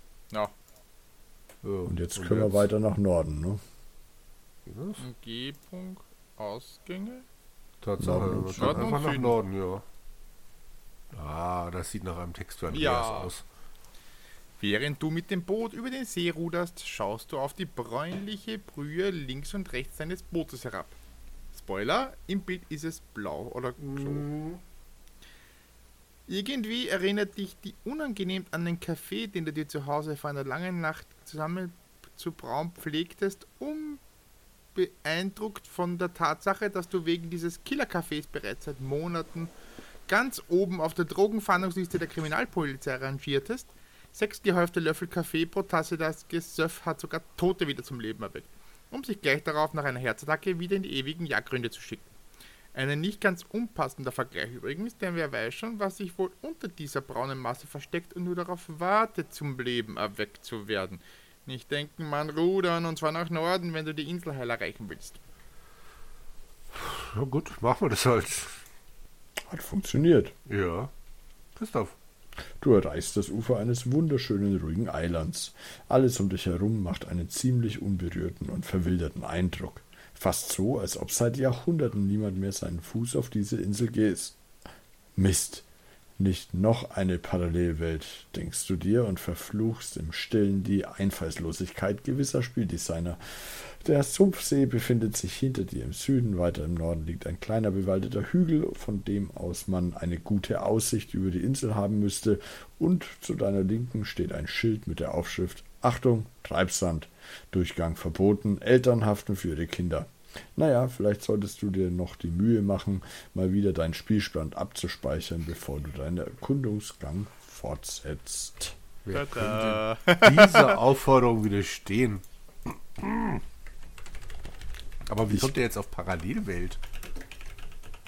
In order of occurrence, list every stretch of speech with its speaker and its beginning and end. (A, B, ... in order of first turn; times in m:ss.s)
0:01.6-0:02.6 A
0:01.9-0:03.6 B
0:04.6-0:05.0 A
0:05.0-0:07.2 C
0:07.8-0:09.8 A
0:08.0-0:08.9 B
0:08.6-0:09.4 C
0:11.1-0:13.4 A
0:12.7-0:13.3 C
0:14.6-0:21.0 C
0:21.5-0:24.3 C
0:23.8-0:24.6 A
0:26.3-0:34.0 C
0:34.7-0:39.5 C
0:40.1-0:52.1 C
0:52.7-1:05.2 C
1:06.7-1:08.6 A
1:09.5-1:10.3 B
1:10.5-1:10.9 A
1:11.6-1:12.0 A
1:12.6-1:24.4 B
1:25.2-1:25.6 B
1:26.2-1:58.8 B
1:59.0-2:02.2 A
1:59.1-2:00.8 C
2:03.0-2:03.4 A
2:05.1-2:06.8 A